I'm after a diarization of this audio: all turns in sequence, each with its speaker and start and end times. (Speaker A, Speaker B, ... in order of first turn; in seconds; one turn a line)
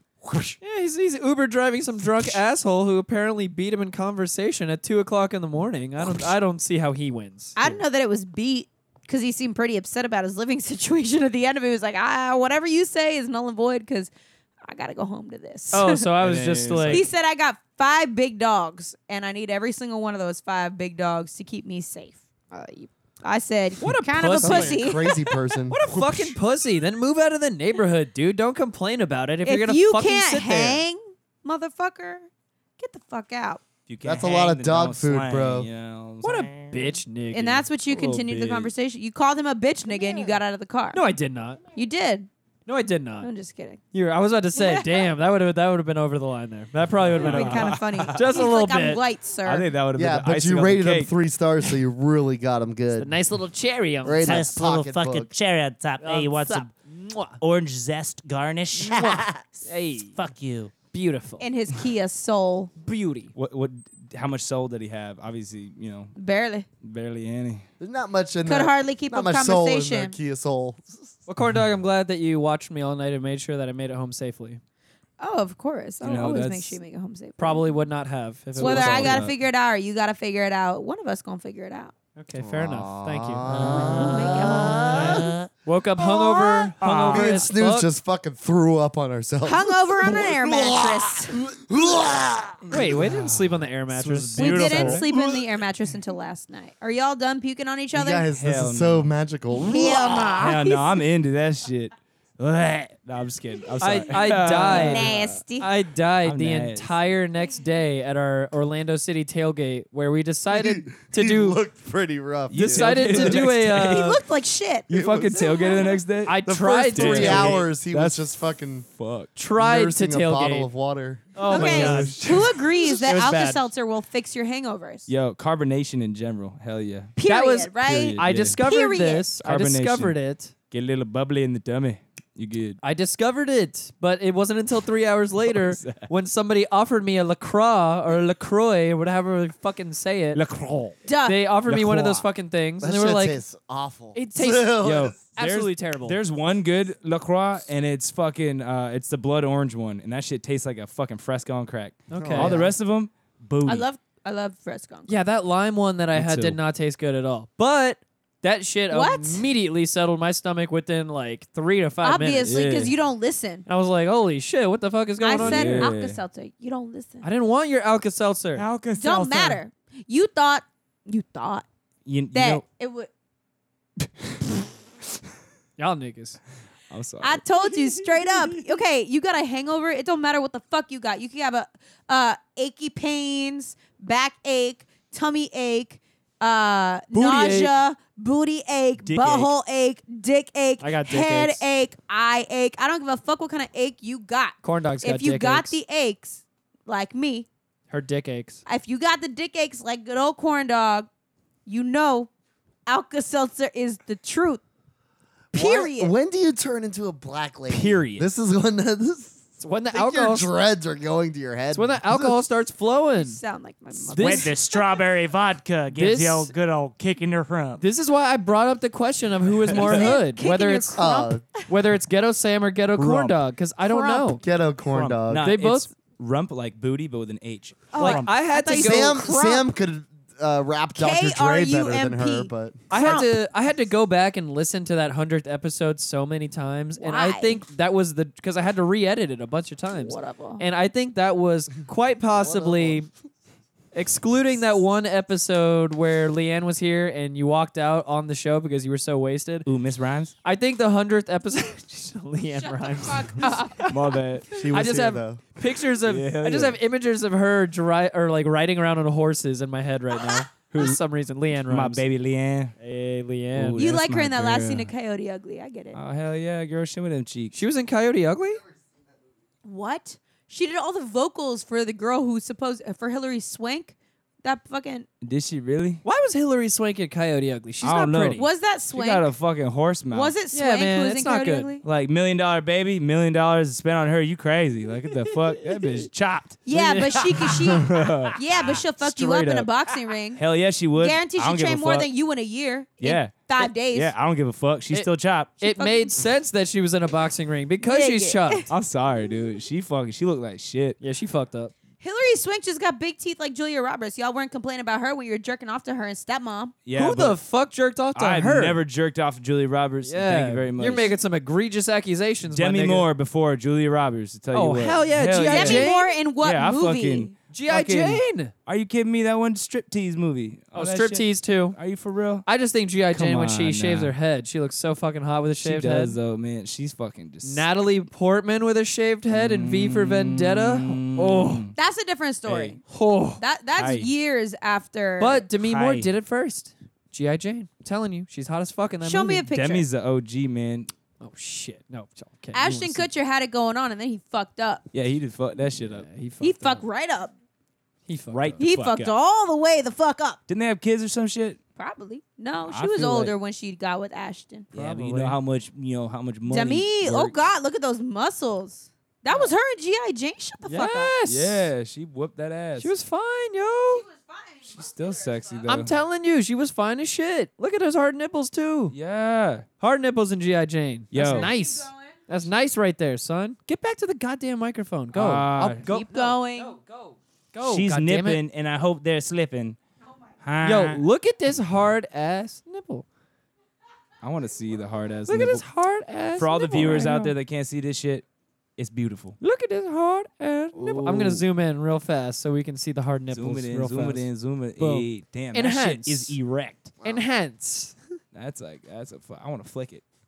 Speaker A: 0.6-7.8
Speaker B: 7.6-14.1
Speaker B: 14.7-16.1
Speaker A: 15.7-17.1
Speaker C: 16.2-17.1
Speaker B: 16.9-25.3
Speaker A: 23.8-25.0
Speaker D: 24.4-25.8
Speaker A: 25.7-30.8
Speaker B: 29.4-32.3
Speaker B: 32.8-33.6
Speaker C: 33.9-36.8
Speaker D: 34.0-35.7
Speaker A: 36.2-37.7
Speaker B: 37.3-41.0
Speaker C: 37.9-38.7
Speaker A: 40.9-41.6
Speaker B: 41.8-42.3
Speaker A: 42.7-43.3
Speaker B: 43.2-43.8
Speaker A: 43.9-49.0
Speaker B: 44.6-45.1
Speaker C: 47.1-48.4
Speaker B: 47.2-49.7
Speaker C: 49.5-51.1
Speaker D: 50.0-53.1
Speaker A: 53.0-54.5
Speaker D: 54.0-55.3
Speaker E: 54.2-56.7
Speaker A: 56.0-57.4
Speaker E: 57.4-60.7
Speaker A: 58.8-60.2
Speaker A: 60.9-61.5
Speaker B: 61.4-62.7
Speaker A: 62.8-63.3
Speaker C: 63.4-66.2
Speaker B: 66.2-66.7
Speaker C: 66.8-67.7
Speaker D: 67.8-70.9
Speaker B: 68.5-70.2
Speaker A: 71.3-74.6
Speaker B: 75.2-77.8
Speaker C: 76.0-76.8
Speaker A: 77.4-79.2
Speaker C: 78.6-79.4
Speaker B: 78.6-81.9
Speaker A: 82.2-87.9
Speaker D: 82.4-85.3
Speaker B: 83.6-85.3
Speaker B: 86.1-86.7
Speaker E: 86.8-87.2
Speaker D: 87.1-93.0
Speaker B: 89.4-91.4
Speaker A: 92.7-95.0
Speaker C: 93.9-95.0
Speaker B: 94.4-98.3
Speaker D: 95.1-95.4
Speaker D: 97.9-100.4
Speaker C: 98.3-99.1
Speaker B: 99.6-101.0
Speaker C: 100.3-105.4
Speaker A: 103.8-111.6
Speaker B: 104.7-105.7
Speaker C: 106.2-106.9
Speaker D: 110.5-113.4
Speaker C: 112.5-114.2
Speaker A: 112.5-114.2
Speaker B: 113.8-114.9
Speaker D: 114.9-115.9
Speaker C: 114.9-118.2
Speaker A: 116.2-117.7
Speaker D: 116.5-118.9
Speaker C: 118.9-119.3
Speaker A: 119.3-120.7
Speaker D: 119.6-121.4
Speaker A: 121.3-122.2
Speaker B: 121.5-125.1
Speaker C: 121.5-122.5
Speaker A: 122.9-123.7
Speaker C: 125.1-127.1
Speaker B: 127.2-129.3
Speaker A: 127.2-130.5
Speaker C: 127.8-128.6
Speaker C: 129.4-130.2
Speaker C: 130.7-132.8
Speaker A: 132.8-140.4
Speaker C: 135.5-136.1
Speaker E: 140.3-141.0
Speaker B: 141.1-141.4
Speaker A: 141.3-143.4
Speaker C: 141.7-142.2
Speaker D: 142.8-145.2
Speaker A: 144.1-146.2
Speaker C: 144.8-153.8
Speaker A: 152.1-152.6
Speaker D: 152.1-152.7
Speaker B: 153.7-155.1
Speaker A: 155.1-162.5
Speaker C: 156.2-156.6
Speaker B: 158.9-159.4
Speaker B: 162.0-163.7
Speaker C: 162.4-162.9
Speaker A: 163.7-165.9
Speaker B: 165.2-167.3
Speaker C: 165.4-166.2
Speaker A: 167.2-168.7
Speaker E: 168.6-169.6
Speaker B: 169.0-171.7
Speaker C: 172.1-172.6
Speaker B: 172.3-173.1
Speaker C: 174.1-174.5
Speaker A: 175.8-176.4
Speaker C: 176.9-178.0
Speaker B: 177.2-197.5
Speaker A: 187.1-187.7
Speaker A: 189.1-189.4
Speaker A: 190.8-191.7
Speaker A: 194.6-195.8
Speaker A: 197.9-198.6
Speaker B: 198.7-201.1
Speaker B: 201.7-202.3
Speaker B: 202.9-204.6
Speaker D: 205.5-209.4
Speaker B: 205.5-206.1
Speaker A: 207.7-208.2
Speaker A: 209.6-210.5
Speaker D: 209.9-212.4
Speaker A: 211.7-213.4
Speaker B: 213.2-214.8
Speaker A: 214.1-214.5
Speaker E: 214.2-217.8
Speaker A: 215.9-216.5
Speaker A: 217.8-221.0
Speaker C: 219.7-220.0
Speaker B: 219.7-221.7
Speaker D: 221.0-221.4
Speaker A: 221.7-224.4
Speaker C: 223.0-223.3
Speaker B: 223.8-224.4
Speaker D: 224.4-225.5
Speaker C: 224.9-228.0
Speaker A: 225.4-225.9
Speaker B: 227.9-229.7
Speaker A: 228.0-229.3
Speaker E: 228.0-228.3
Speaker D: 228.7-233.2
Speaker B: 231.0-233.3
Speaker A: 232.9-243.1
Speaker B: 237.0-237.6
Speaker B: 239.9-240.6
Speaker D: 242.3-243.1
Speaker A: 243.9-249.7
Speaker C: 249.7-250.3
Speaker E: 249.7-250.1
Speaker A: 250.4-254.2
Speaker B: 252.6-253.8
Speaker C: 253.9-254.7
Speaker D: 254.5-255.4
Speaker A: 254.7-262.0
Speaker C: 256.0-256.8
Speaker C: 260.7-261.0
Speaker C: 261.7-262.7
Speaker A: 262.8-263.9
Speaker C: 263.5-264.9
Speaker B: 263.8-266.0
Speaker C: 265.9-267.6
Speaker A: 267.5-268.6
Speaker B: 269.6-275.1
Speaker C: 275.2-276.0
Speaker A: 276.0-278.4
Speaker C: 277.8-280.3
Speaker B: 278.4-279.3
Speaker B: 280.1-281.8
Speaker A: 280.5-281.7
Speaker C: 281.8-286.2
Speaker A: 285.2-285.9
Speaker E: 286.1-286.5
Speaker B: 286.7-290.4
Speaker A: 286.7-287.9
Speaker C: 287.7-289.7
Speaker C: 290.4-292.1
Speaker B: 291.0-294.1
Speaker C: 293.0-295.5
Speaker A: 295.6-298.7
Speaker B: 295.6-296.2
Speaker B: 297.8-298.6
Speaker C: 298.7-301.0
Speaker A: 301.0-301.7
Speaker B: 302.0-306.8
Speaker C: 306.9-307.4
Speaker A: 306.9-308.8
Speaker C: 308.1-311.2
Speaker A: 310.1-313.1
Speaker C: 312.5-315.9
Speaker A: 314.5-316.1
Speaker B: 315.4-317.3
Speaker C: 316.4-322.5
Speaker A: 317.5-318.5
Speaker A: 320.8-321.8
Speaker A: 322.5-326.2
Speaker C: 323.1-324.1
Speaker C: 325.6-327.7
Speaker A: 327.4-331.7
Speaker C: 329.3-331.8
Speaker B: 331.8-332.8
Speaker C: 332.5-332.8
Speaker A: 332.9-333.4
Speaker B: 333.4-335.4
Speaker C: 333.8-334.1
Speaker A: 335.2-339.5
Speaker E: 335.6-336.1
Speaker B: 339.0-339.9
Speaker C: 339.5-340.9
Speaker A: 341.2-343.1
Speaker B: 342.5-344.9
Speaker C: 344.9-346.1
Speaker A: 345.8-346.9
Speaker B: 346.4-347.3
Speaker A: 348.1-348.6
Speaker C: 348.3-349.1
Speaker B: 348.6-350.4
Speaker C: 350.5-351.6
Speaker B: 351.8-354.7
Speaker C: 352.7-353.3
Speaker A: 354.7-355.4
Speaker C: 354.7-357.3
Speaker B: 356.4-361.1
Speaker A: 360.7-361.7
Speaker C: 361.3-362.9
Speaker A: 362.8-364.0
Speaker B: 363.9-364.7
Speaker C: 364.7-365.9
Speaker A: 365.7-368.9
Speaker C: 368.9-369.7
Speaker A: 369.8-378.4
Speaker C: 371.1-371.5
Speaker B: 371.2-372.2
Speaker C: 375.1-375.9
Speaker B: 375.9-376.8
Speaker C: 377.7-378.6
Speaker E: 378.0-379.7
Speaker E: 380.4-381.0
Speaker A: 380.6-383.1
Speaker C: 384.2-385.6
Speaker A: 385.3-387.3
Speaker C: 386.4-388.2
Speaker C: 388.8-389.4
Speaker A: 389.4-396.4
Speaker C: 390.8-391.4
Speaker C: 393.3-396.4
Speaker E: 396.4-396.9
Speaker A: 397.0-398.0
Speaker C: 398.3-400.0